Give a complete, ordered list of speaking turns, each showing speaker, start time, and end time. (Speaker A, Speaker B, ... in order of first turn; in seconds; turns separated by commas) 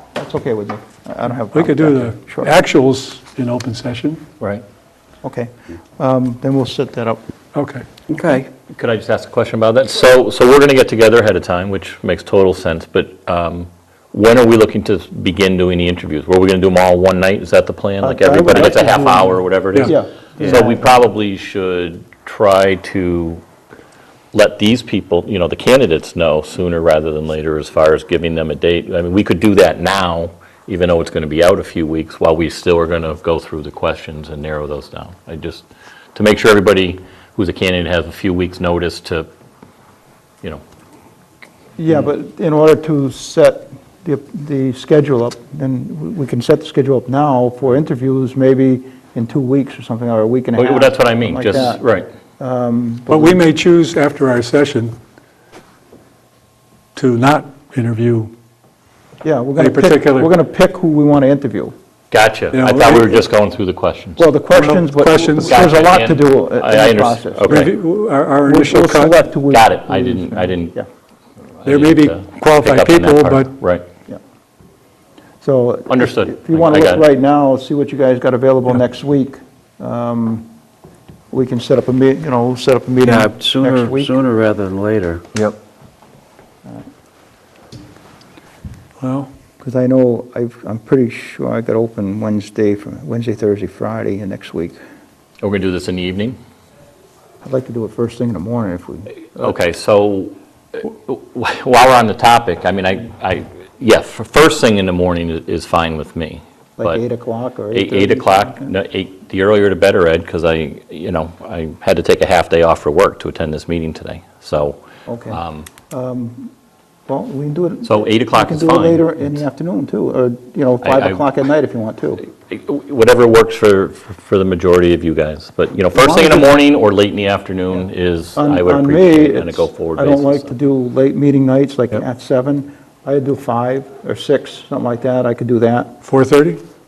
Speaker A: 0.1-2.5, Speaker B: 1.5-4.2, Speaker A: 5.2-7.2, Speaker B: 7.5-7.8, Speaker C: 8.1-8.5, Speaker D: 8.7-23.4, Speaker A: 18.0-20.9, Speaker D: 24.3-39.3, Speaker A: 41.8-51.8, Speaker D: 50.5-52.1, Speaker A: 52.4-53.4, Speaker B: 53.1-55.0, Speaker B: 57.0-58.3, Speaker A: 59.2-61.7, Speaker B: 59.6-60.3, Speaker D: 62.1-64.2, Speaker B: 62.5-63.2, Speaker A: 64.2-67.6, Speaker B: 64.5-65.7, Speaker D: 65.4-67.7, Speaker B: 67.5-69.2, Speaker A: 68.4-70.9, Speaker D: 69.5-70.7, Speaker D: 71.6-73.8, Speaker B: 71.6-73.5, Speaker A: 75.4-80.5, Speaker D: 75.9-77.0, Speaker A: 81.3-84.2, Speaker C: 83.0-85.2, Speaker B: 89.0-89.3, Speaker A: 89.6-94.8, Speaker D: 95.4-96.4, Speaker A: 97.4-99.5, Speaker D: 99.4-107.0, Speaker A: 106.8-108.7, Speaker D: 107.7-115.7, Speaker A: 115.0-116.5, Speaker A: 117.1-122.2, Speaker D: 117.8-119.3, Speaker D: 120.8-121.2, Speaker D: 122.4-130.5, Speaker A: 125.9-126.5, Speaker A: 128.3-135.9, Speaker B: 136.0-136.6